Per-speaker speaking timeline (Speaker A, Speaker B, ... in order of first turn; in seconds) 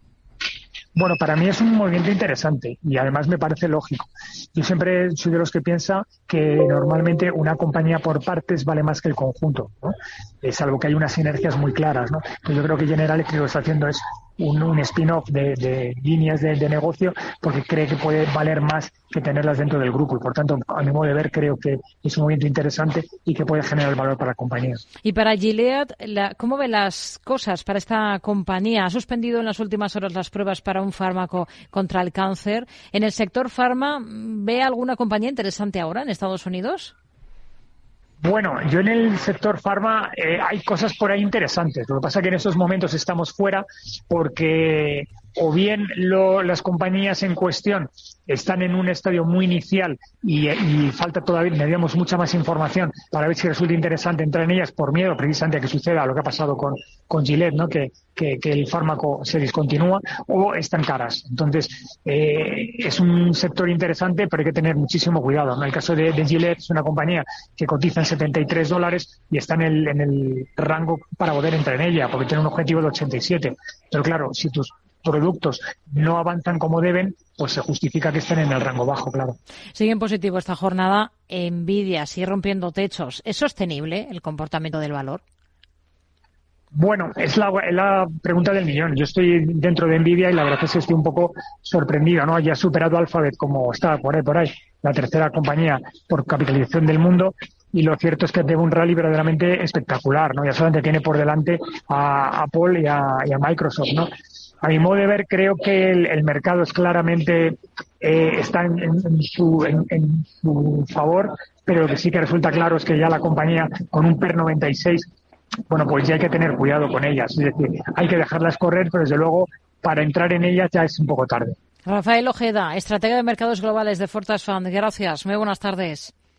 Speaker A: 0.9-24.8, 38.2-79.4, 86.7-104.1, 104.6-115.1, 115.7-121.6
Speaker B: 25.0-36.9, 79.8-85.2, 121.9-126.1